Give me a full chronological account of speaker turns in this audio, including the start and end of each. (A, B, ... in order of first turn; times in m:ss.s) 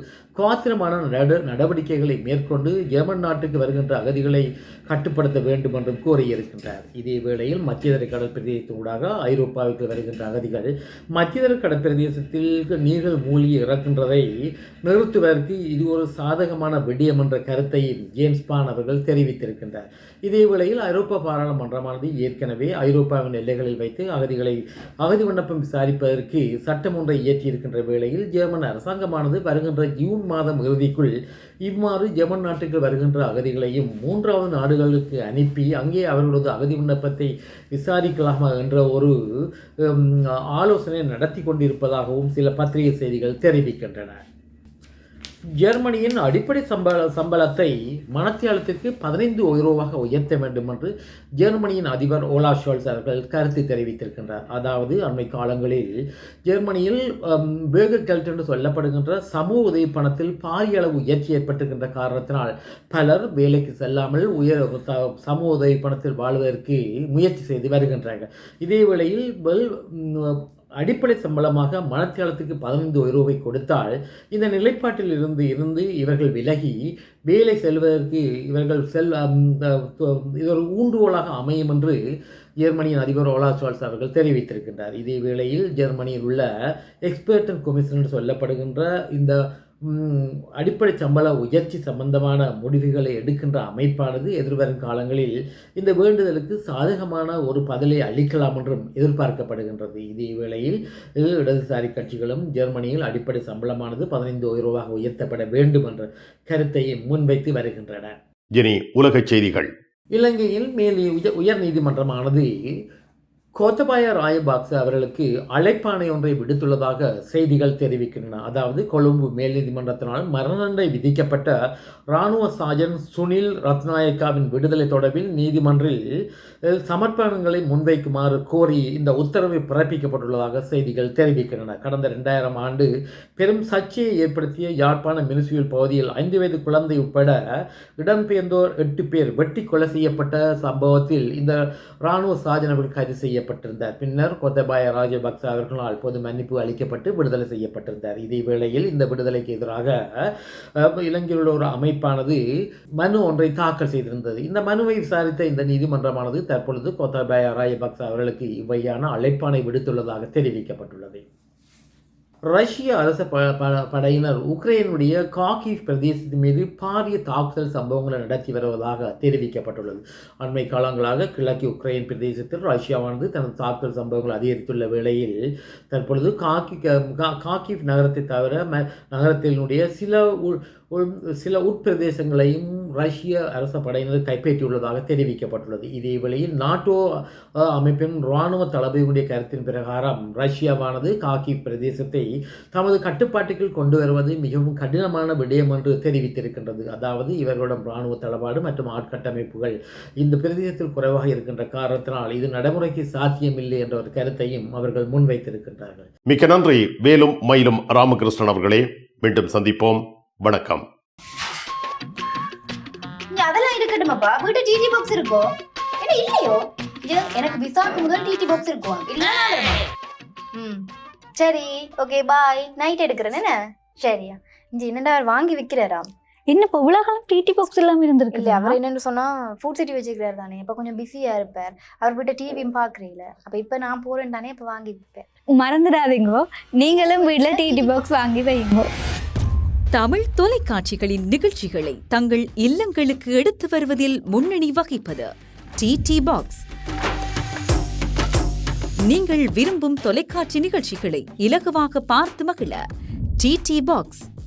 0:00.4-0:44.2 A
0:45.6-1:22.0 A
1:22.6-1:48.2 A
1:48.6-1:49.7 B
1:50.1-1:52.5 A
1:53.6-2:01.5 A
2:02.1-2:06.0 A
2:06.6-2:32.4 A
2:33.0-2:41.2 A
2:42.4-3:26.1 A
3:26.3-3:30.8 B
3:33.3-3:39.8 C
3:40.5-3:46.1 C
3:46.5-3:48.8 D
3:48.3-3:55.3 C
3:55.5-3:58.9 D
3:57.0-3:58.0 C
3:59.9-4:06.6 E
4:09.1-4:12.8 E
4:13.4-4:14.3 E